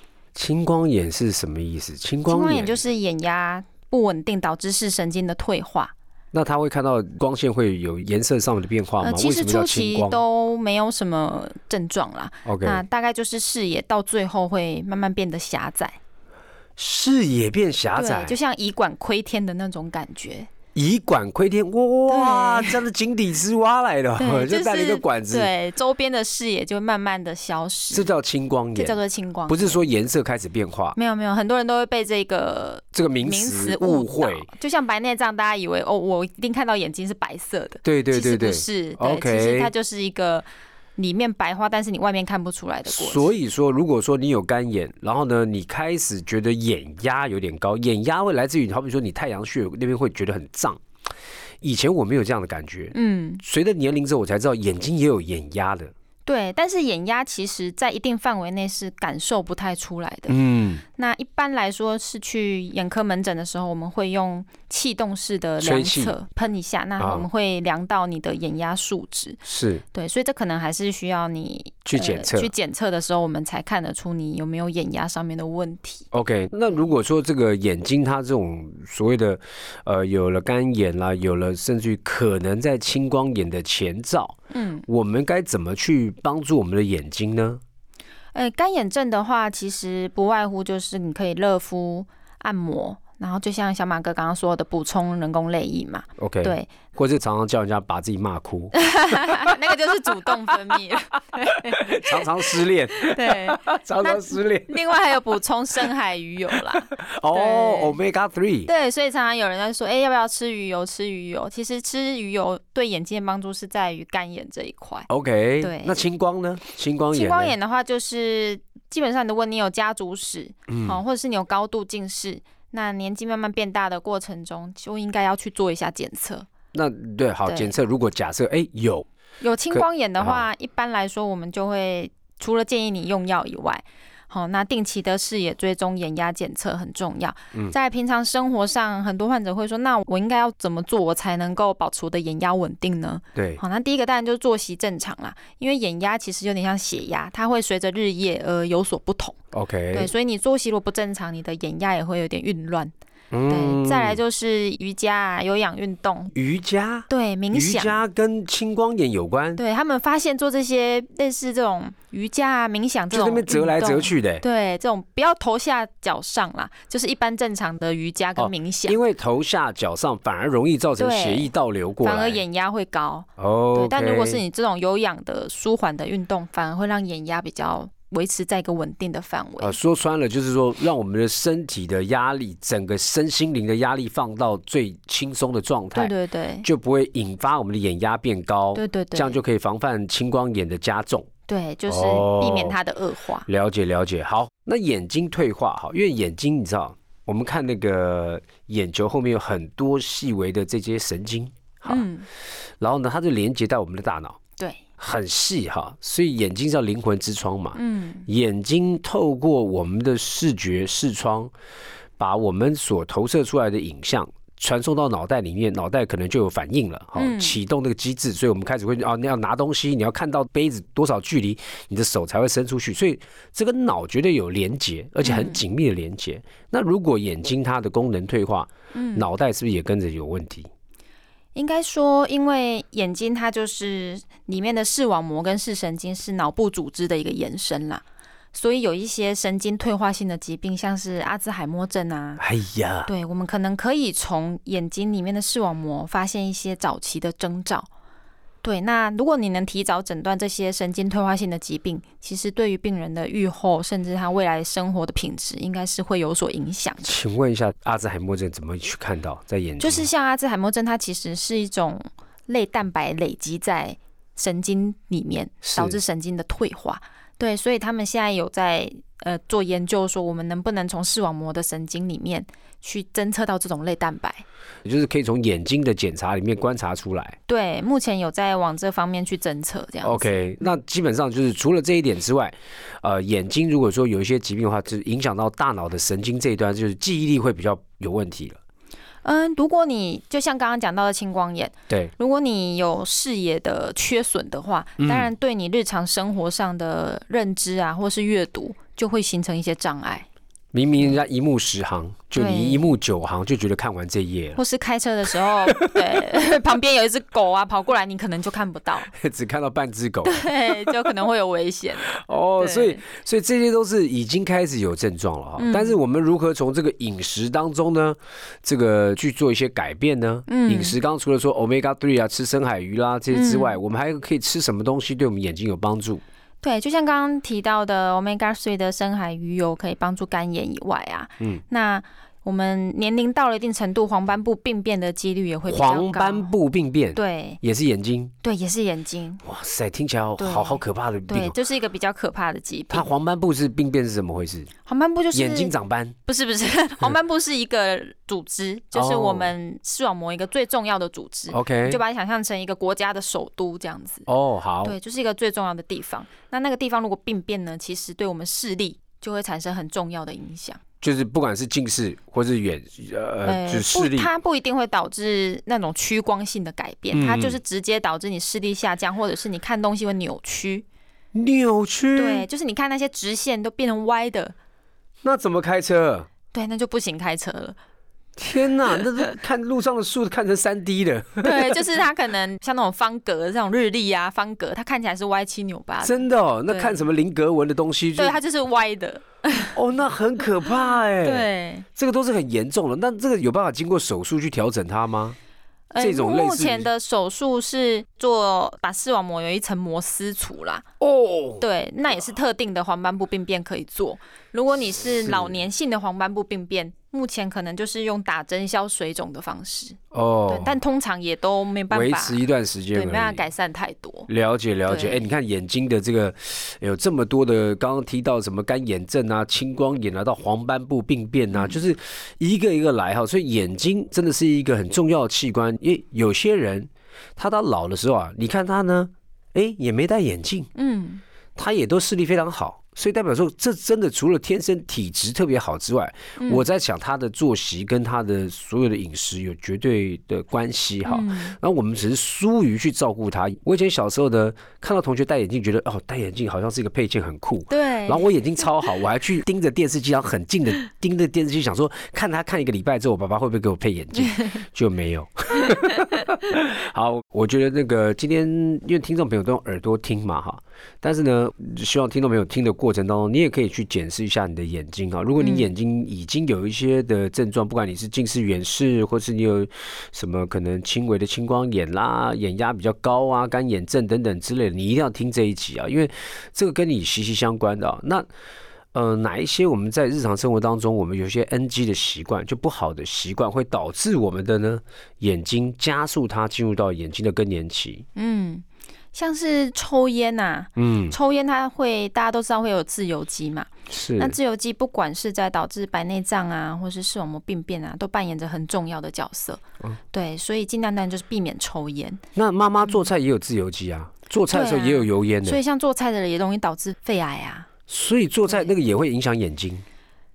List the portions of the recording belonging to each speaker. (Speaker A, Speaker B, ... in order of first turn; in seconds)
Speaker A: 0.3-2.8, 6.3-10.2, 12.4-12.8, 16.8-18.4, 20.8-25.5, 27.9-29.0, 29.5-31.0, 32.9-34.5, 37.8-39.7, 42.9-50.8, 51.6-55.9, 60.3-60.8, 65.6-66.2, 67.0-67.3, 69.5-69.8, 71.9-72.5, 76.1-87.6, 96.2-99.7, 101.5-104.8, 106.8-108.7, 115.1-117.5, 120.7-121.0, 126.7-129.1, 129.7-130.4, 143.3-143.6, 149.5-150.1, 153.3-154.2, 156.3-159.6, 163.1-164.4, 168.4-172.4, 173.4-174.4, 179.6-186.1, 186.6-191.3, 191.9-192.8, 193.5-202.1, 202.8-204.4, 205.0-211.5, 212.2-230.7, 242.4-243.1, 257.0-260.1, 265.6-266.0, 274.9-277.4, 280.0-288.6, 295.0-295.3, 300.7-304.6, 305.3-306.2, 309.1-311.1, 312.1-326.2, 335.7-338.3, 339.4-341.6, 342.9-344.7, 345.3-346.2, 348.9-349.5, 351.5-352.0, 354.3-355.0, 361.0-364.3, 367.1-367.6, 371.3-372.5, 375.2-376.3, 378.4-381.9, 386.0-388.4, 389.7-395.4, 396.0-396.9, 401.0-401.6, 405.2-405.6, 410.1-410.8, 411.9-413.4, 414.3-430.7, 431.6-478.3, 478.9-488.1, 490.8-491.2, 493.9-494.4, 502.4-505.6, 507.9-509.8
Speaker B: 2.3-5.9, 9.0-16.0, 18.0-20.5, 22.1-22.8, 24.2-28.1, 28.8-29.8, 31.0-40.5, 41.0-43.3, 52.9-53.4, 56.3-60.3, 61.0-69.4, 69.9-76.1, 84.5-84.8, 88.3-96.7, 98.8-108.0, 108.7-115.1, 115.6-116.0, 117.1-126.5, 127.5-127.8, 129.4-149.4, 149.9-152.9, 153.5-156.3, 157.1-158.0, 159.6-169.0, 171.0-171.5, 172.0-179.8, 185.9-186.7, 188.8-189.4, 191.5-193.5, 201.9-202.3, 207.7-208.3, 217.2-217.6, 225.2-225.6, 228.9-229.3, 231.6-242.4, 243.1-247.9, 248.6-257.1, 259.8-274.4, 277.5-280.4, 289.2-300.3, 302.4-302.9, 304.6-309.1, 310.2-313.0, 315.6-316.0, 320.5-321.0, 323.3-323.8, 326.6-336.5, 337.1-337.6, 338.4-339.4, 340.4-343.1, 344.9-345.7, 346.3-354.3, 354.8-360.8, 363.4-370.9, 372.1-374.6, 376.5-377.8, 381.4-387.0, 388.2-389.8, 391.2-391.9, 395.9-400.9, 401.6-414.3, 414.9-415.3, 430.8-431.2, 436.4-436.6, 441.1-441.6, 447.7-448.3, 465.4-465.7, 488.1-502.2, 504.5-507.7